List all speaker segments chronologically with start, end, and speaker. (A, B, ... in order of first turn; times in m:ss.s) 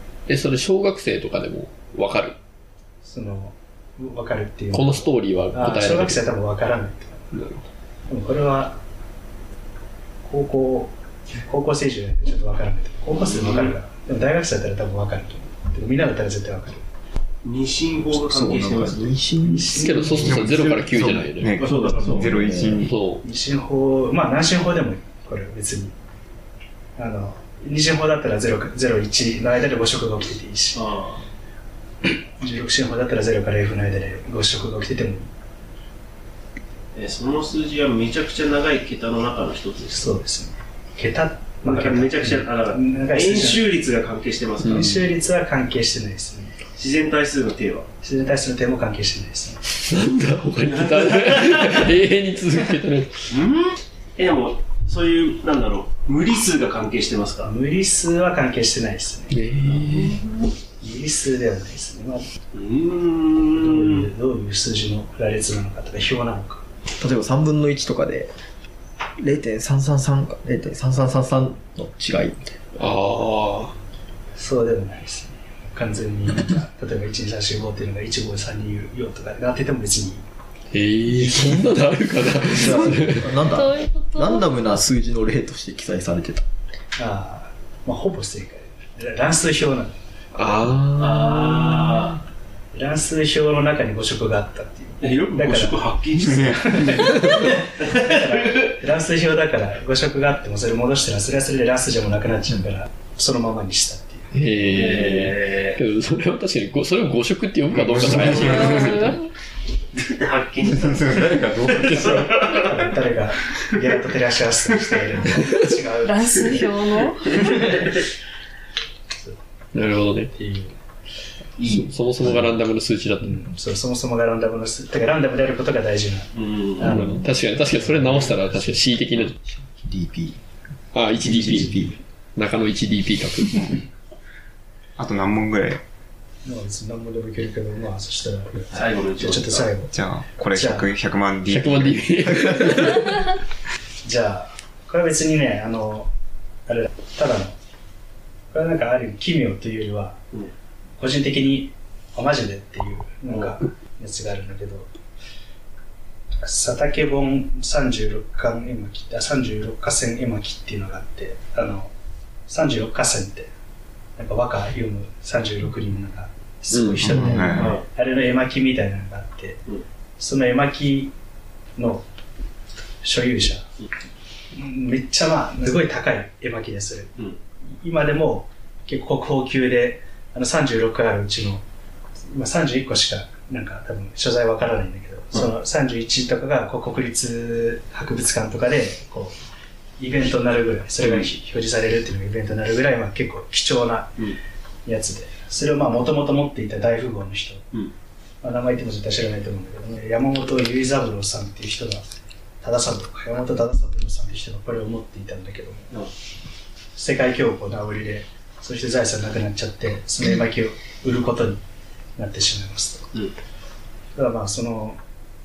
0:00.3-0:02.4 A
0:03.0-0:07.3 B
0:04.7-0:06.3 A
0:07.3-0:07.6 A
0:08.1-0:08.8 B
0:10.2-0:16.8 B
0:13.1-0:13.8 C
0:17.4-0:19.2 C
0:18.1-0:20.4 D
0:19.4-0:20.4 B
0:19.7-0:21.5 A
0:20.2-0:23.0 E
0:21.0-0:22.8 D
0:21.6-0:22.3 C
0:22.8-0:23.2 A
0:23.2-0:25.9 B
0:27.0-0:30.8 B
0:30.8-0:31.2 C
0:32.0-0:35.3 B
0:37.0-0:40.0 C
0:39.9-0:43.6 B
0:41.6-0:44.8 C
0:44.6-0:45.0 A
0:44.7-0:46.6 B
0:46.8-0:47.9 C
0:48.0-0:49.6 B
0:49.7-0:53.1 A
0:50.8-0:51.7 C
0:53.3-0:57.5 C
0:57.4-0:59.4 B
0:59.3-1:00.2 A
0:59.9-1:00.4 C
1:00.8-1:02.2 B
1:02.5-1:04.1 C
1:03.6-1:06.6 B
1:07.0-1:08.3 D
1:09.2-1:12.6 D
1:12.8-1:13.7 A
1:14.4-1:20.2 B
1:20.7-1:23.3 A
1:22.5-1:26.4 D
1:23.4-1:24.4 F
1:27.0-1:30.0 B
1:30.4-1:32.1 A
1:31.0-1:32.2 C
1:32.7-1:44.3 B
1:35.0-1:38.7 C
1:36.3-1:36.5 E
1:37.0-1:37.5 A
1:44.3-1:49.2 A
1:44.8-1:45.8 C
1:47.7-1:48.9 E
1:50.0-1:52.7 C
1:50.7-1:52.3 E
1:51.9-1:56.7 B
1:52.0-1:52.2 A
1:56.0-1:57.7 F
1:57.3-1:57.8 B
1:57.5-1:58.0 C
1:59.7-2:00.3 A
2:00.3-2:00.8 B
2:01.6-2:01.9 C
2:01.7-2:03.5 A
2:03.2-2:07.2 B
2:06.4-2:07.0 C
2:06.8-2:09.4 A
2:09.6-2:10.4 D
2:10.9-2:11.7 A
2:11.2-2:12.0 D
2:12.4-2:13.8 A
2:15.0-2:15.8 E
2:16.4-2:19.9 B
2:18.7-2:19.7 C
2:19.9-2:22.5 E
2:20.5-2:20.9 B
2:21.5-2:23.3 A
2:24.0-2:26.1 B
2:26.7-2:27.6 B
2:28.5-2:30.2 B
2:31.0-2:34.9 B
2:36.4-2:41.9 B
2:42.5-2:43.5 B
2:44.2-2:49.6 B
2:46.7-2:47.4 A
2:47.1-2:47.8 E
2:47.6-2:47.8 C
2:50.2-2:51.1 B
2:51.8-2:52.0 B
2:53.0-2:53.7 B
2:54.5-2:57.1 B
2:57.8-3:01.6 B
3:02.3-3:09.4 B
3:10.0-3:14.2 B
3:11.0-3:11.3 C
3:14.8-3:17.6 B
3:18.4-3:22.1 B
3:22.6-3:25.9 B
3:27.0-3:31.6 B
3:32.2-3:33.1 B
3:34.2-3:35.0 B